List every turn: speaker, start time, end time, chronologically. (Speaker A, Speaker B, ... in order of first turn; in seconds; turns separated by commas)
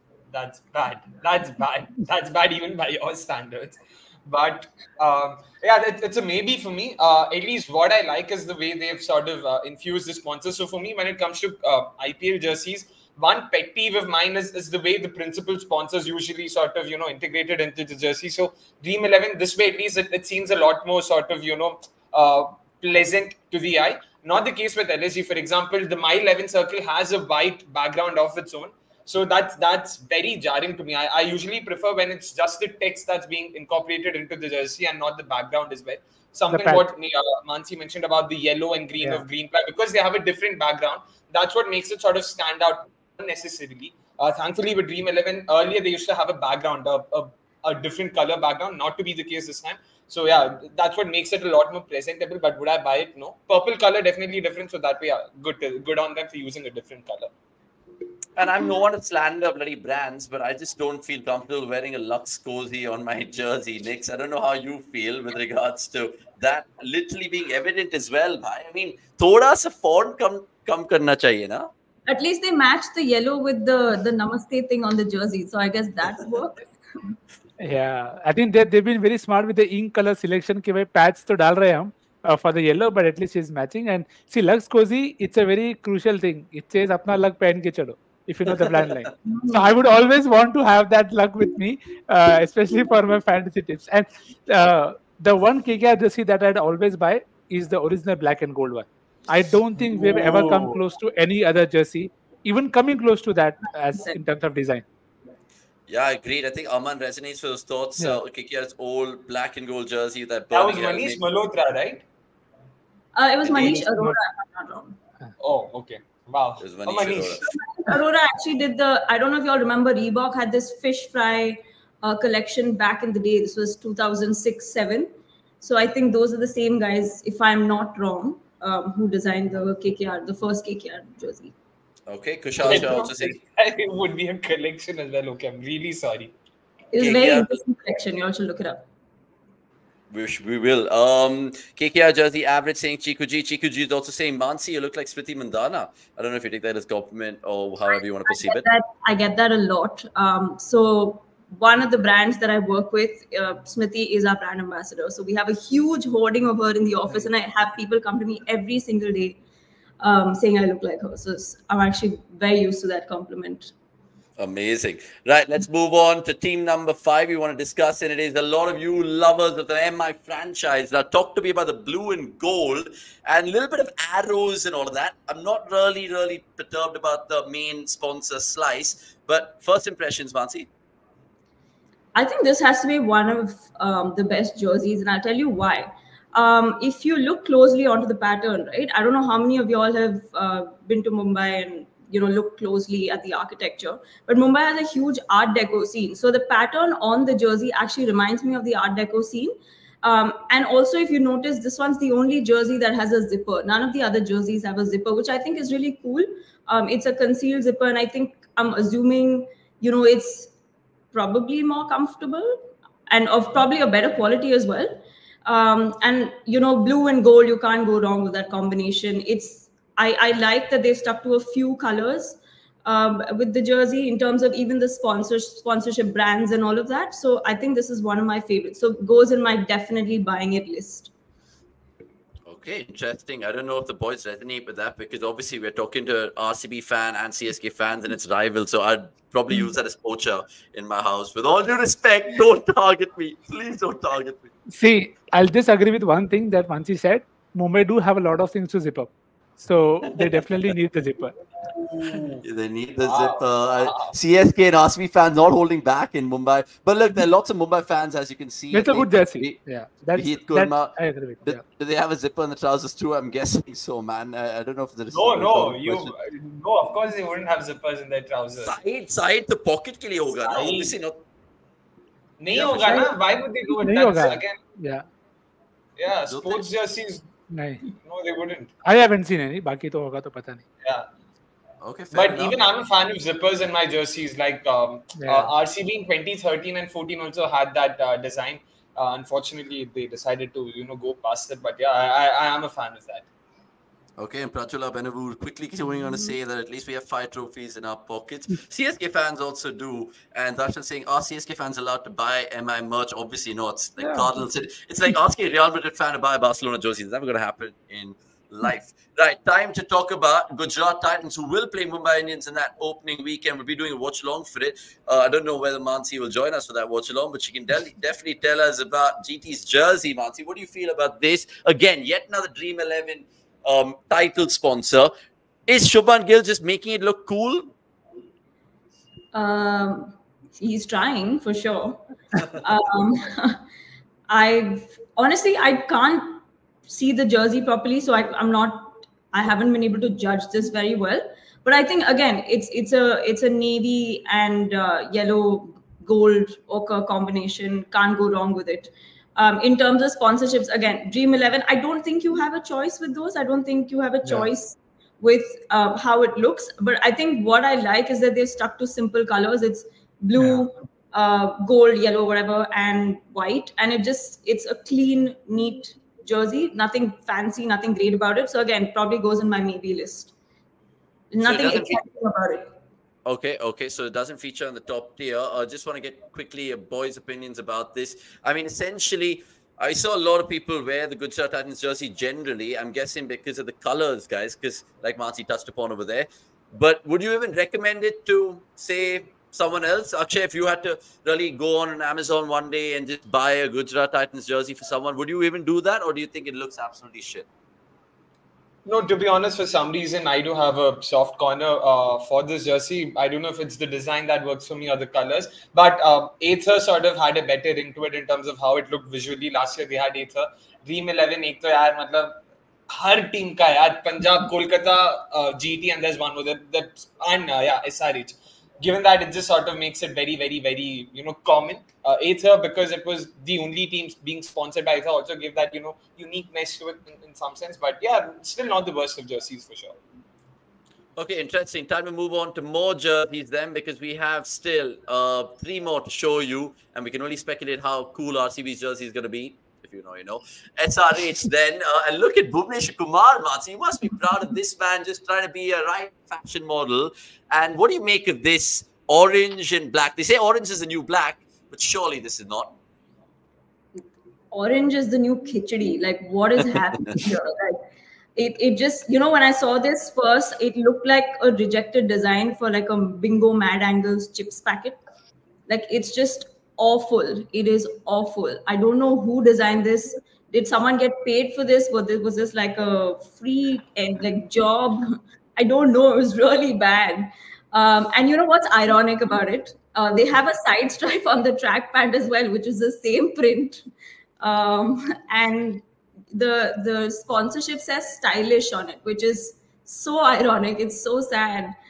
Speaker A: 0.3-57.3, Speaker B: 36.5-36.9, Speaker C: 58.4-71.7, Speaker D: 72.1-77.2, Speaker B: 77.6-104.8, Speaker D: 89.3-89.8, Speaker A: 99.8-100.8, Speaker C: 105.9-111.2, Speaker A: 110.5-112.0, Speaker D: 113.2-115.0, Speaker C: 113.4-113.8, Speaker A: 115.4-117.4, Speaker C: 116.6-117.5, Speaker D: 117.4-131.5, Speaker C: 132.1-133.4, Speaker A: 132.6-136.3, Speaker D: 136.9-138.8, Speaker C: 137.0-137.5, Speaker C: 140.1-148.7, Speaker D: 148.3-159.4, Speaker D: 160.0-163.7, Speaker C: 164.4-180.7, Speaker D: 182.2-210.5, Speaker D: 211.1-212.6, Speaker D: 213.1-231.1, Speaker C: 232.4-244.5, Speaker B: 244.7-251.3, Speaker C: 250.0-250.6, Speaker A: 251.8-252.4, Speaker C: 252.4-259.6, Speaker A: 253.1-254.1, Speaker B: 258.7-261.6, Speaker C: 260.1-266.1, Speaker A: 265.1-268.7, Speaker C: 268.6-271.2, Speaker A: 270.5-270.9, Speaker A: 272.4-274.6, Speaker C: 272.5-273.1, Speaker B: 273.8-275.1, Speaker A: 276.0-277.3, Speaker C: 276.3-276.6, Speaker B: 277.5-277.8, Speaker A: 277.9-278.7, Speaker B: 278.9-280.6, Speaker C: 281.8-282.6, Speaker A: 282.1-293.3, Speaker B: 285.2-285.5, Speaker C: 294.2-325.1, Speaker B: 304.0-304.3, Speaker C: 325.7-327.7, Speaker D: 329.3-333.6, Speaker D: 334.3-370.3, Speaker D: 371.3-372.7, Speaker C: 371.4-372.0, Speaker C: 373.3-397.5, Speaker A: 398.9-430.0, Speaker C: 431.2-452.8, Speaker D: 454.5-465.0, Speaker D: 465.7-483.8, Speaker D: 484.4-491.8